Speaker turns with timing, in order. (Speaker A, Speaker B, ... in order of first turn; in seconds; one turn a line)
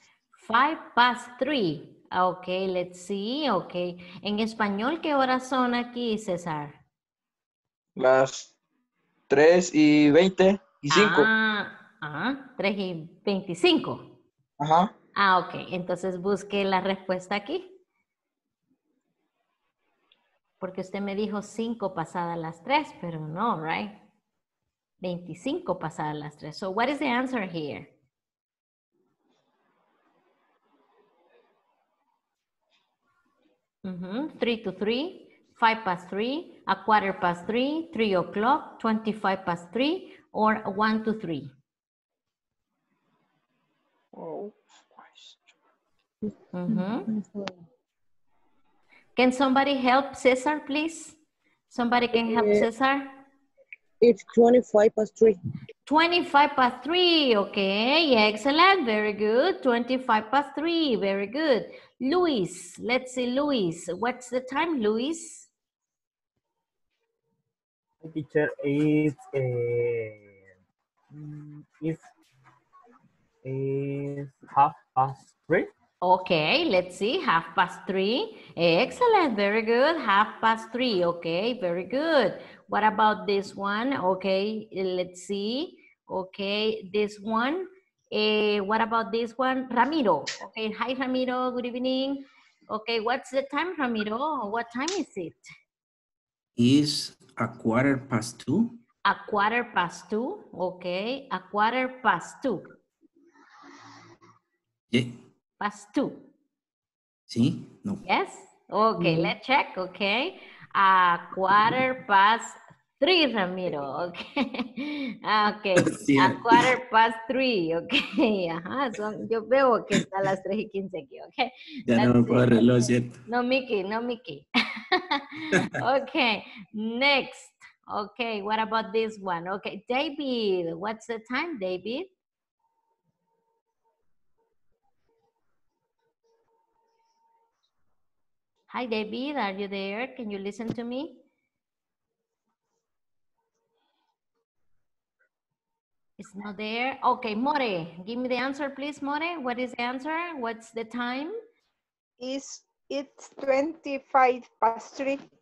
Speaker A: 0.3-6.8
Speaker B: 8.0-8.5
Speaker B: 9.3-11.3
Speaker A: 10.9-14.1
Speaker B: 14.6-14.9
Speaker A: 15.2-17.7
Speaker A: 20.6-24.0
Speaker A: 25.0-27.9
Speaker A: 33.8-41.5
Speaker C: 44.2-44.6
Speaker B: 44.9-45.2
Speaker A: 46.5-47.1
Speaker D: 46.7-47.5
Speaker A: 49.1-51.2
Speaker A: 51.7-53.1
Speaker D: 52.1-52.7
Speaker D: 54.0-55.4
Speaker A: 55.9-65.5
Speaker E: 68.0-70.3
Speaker E: 71.1-72.0
Speaker E: 73.4-75.7
Speaker A: 76.0-95.5
Speaker F: 96.6-98.8
Speaker A: 99.0-102.7
Speaker F: 104.9-105.2
Speaker A: 105.6-106.3
Speaker F: 107.3-108.0
Speaker A: 108.0-122.7
Speaker D: 109.0-109.3
Speaker F: 115.8-116.7
Speaker F: 121.9-123.2
Speaker A: 123.2-132.1
Speaker A: 138.7-141.2
Speaker A: 146.2-151.4
Speaker C: 152.2-155.2